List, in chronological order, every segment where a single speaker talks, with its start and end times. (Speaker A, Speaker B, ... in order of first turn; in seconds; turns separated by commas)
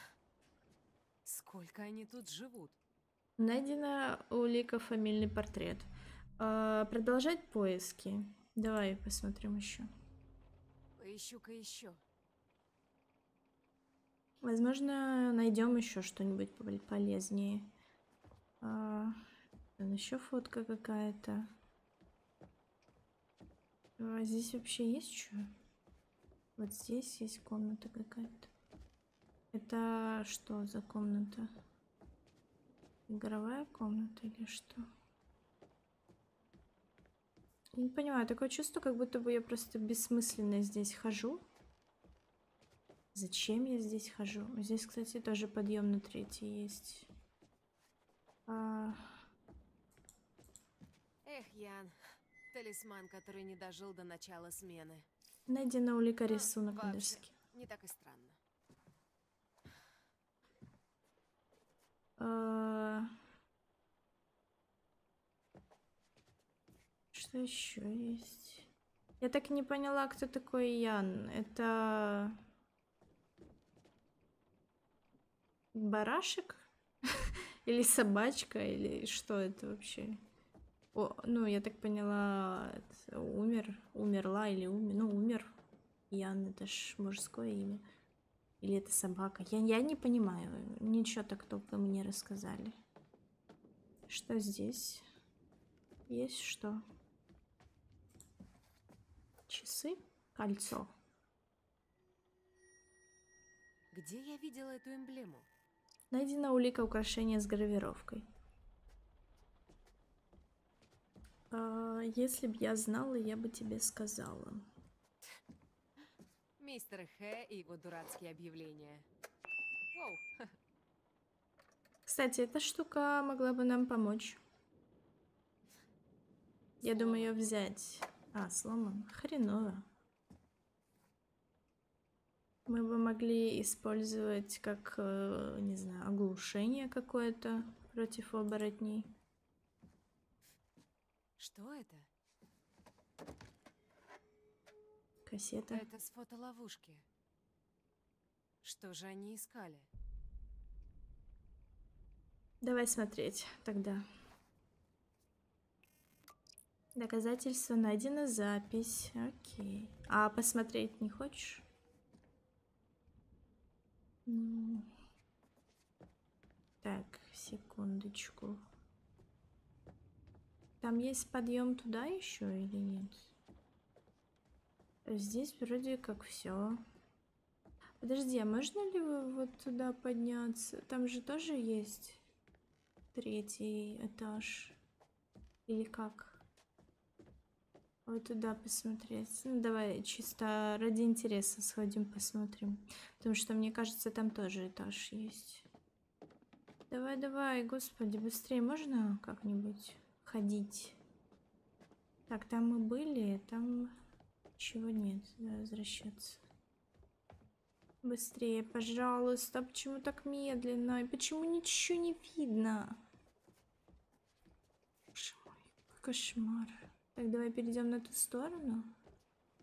Speaker A: 1.2-2.8, Speaker B: 3.4-5.9, Speaker B: 6.4-9.9, Speaker A: 11.0-12.0, Speaker B: 14.4-17.7, Speaker B: 18.6-19.2, Speaker B: 19.8-21.5, Speaker B: 24.0-25.5, Speaker B: 26.6-28.5, Speaker B: 29.5-31.5, Speaker B: 33.1-34.9, Speaker B: 37.8-41.4, Speaker B: 43.1-47.1, Speaker B: 48.5-49.2, Speaker A: 51.2-52.0, Speaker A: 52.5-55.1, Speaker B: 55.5-57.3, Speaker A: 56.3-58.4, Speaker B: 62.2-63.1, Speaker B: 67.1-68.7, Speaker B: 69.2-72.4, Speaker B: 75.7-80.2, Speaker B: 81.0-85.5, Speaker B: 86.1-87.8, Speaker B: 88.6-92.8, Speaker B: 94.1-95.0, Speaker B: 96.1-96.8, Speaker B: 99.5-100.9, Speaker A: 103.9-105.5, Speaker B: 106.1-108.2, Speaker B: 111.5-114.7, Speaker A: 116.6-119.1, Speaker A: 119.9-120.5, Speaker B: 122.1-124.4, Speaker B: 126.8-129.9, Speaker A: 126.9-127.3, Speaker B: 132.7-139.1, Speaker A: 141.4-142.1, Speaker B: 145.3-145.8, Speaker A: 145.7-147.1, Speaker A: 148.6-149.9, Speaker B: 152.6-154.0, Speaker B: 157.0-161.6, Speaker B: 164.3-164.9, Speaker B: 166.8-168.6, Speaker B: 170.8-173.3, Speaker B: 175.1-176.8, Speaker B: 178.0-182.2, Speaker B: 183.1-184.8, Speaker B: 185.7-186.4, Speaker B: 188.1-195.7, Speaker B: 196.9-201.0, Speaker B: 202.3-204.0, Speaker B: 204.6-206.4, Speaker B: 208.0-213.0, Speaker B: 215.2-218.9